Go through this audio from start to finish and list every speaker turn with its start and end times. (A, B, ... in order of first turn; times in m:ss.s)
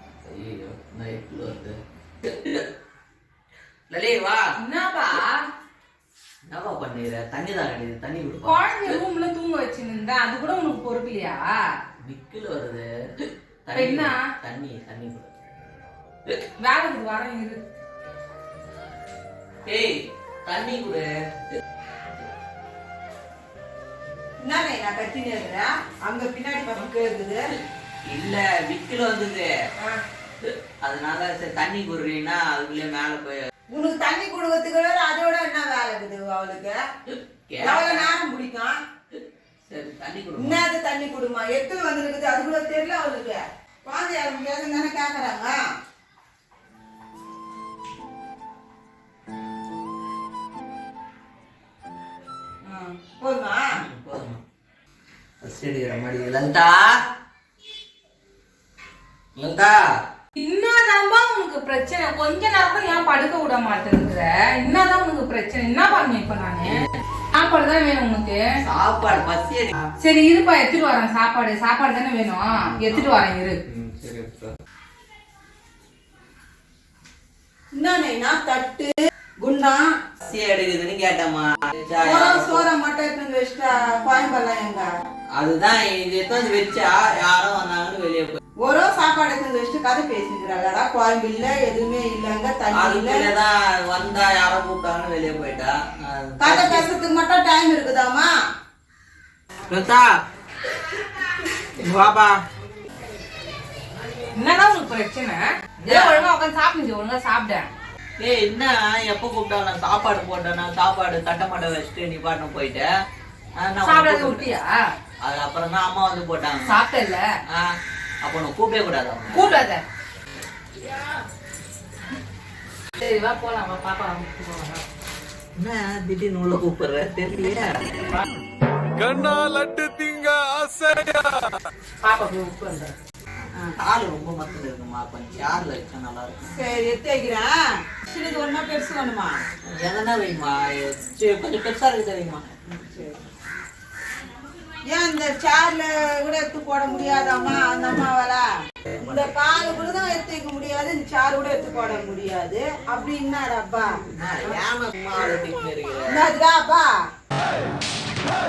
0:00.3-0:02.6 A
0:03.9-0:04.4 A
0:04.6-0:05.3 B
0:06.5-0:09.0 A
0:08.4-0:11.5 B
0:12.0-0:15.3 A
0:13.7-0:14.3 B
0:16.6-0:17.6 B
0:19.6-0:21.6 A
0:24.4-0:27.5 C
0:28.0-0:29.5 A
0:30.4-0:33.4 A
0:33.7-0:36.8 C
0:37.1-0:38.1 A
0:37.6-0:38.8 C
0:39.6-0:40.6 A
0:40.4-0:45.5 C
0:52.6-0:53.7 C
0:53.8-0:54.4 A
0:55.4-0:56.9 A
0:59.4-0:59.8 A
1:00.4-1:06.8 B
1:07.3-1:08.4 B
1:08.6-1:09.7 A
1:10.0-1:13.6 B
1:12.6-1:14.5 A
1:17.7-1:18.9 C
1:19.4-1:19.9 C
1:20.2-1:22.6 A
1:22.0-1:24.9 C
1:25.4-1:28.4 A
1:28.6-1:33.3 C
1:32.7-1:36.9 A
1:36.4-1:38.3 C
1:39.7-1:40.1 A
1:41.7-1:42.4 A
1:44.3-1:47.7 B
1:45.9-1:46.2 A
1:48.2-1:52.9 A
1:53.6-1:54.5 A
1:53.8-1:54.7 B
1:55.2-1:56.8 A
1:56.6-1:57.2 B
1:58.2-1:59.5 A
1:59.3-1:59.8 B
2:03.0-2:04.8 B
2:05.6-2:08.0 A
2:09.0-2:11.6 D
2:12.0-2:12.9 B
2:13.8-2:16.6 A
2:16.6-2:19.4 C
2:19.8-2:22.4 A
2:22.7-2:23.2 C
2:24.9-2:28.4 C
2:29.0-2:29.4 A
2:29.0-2:34.6 C
2:34.1-2:36.2 A
2:36.1-2:36.9 C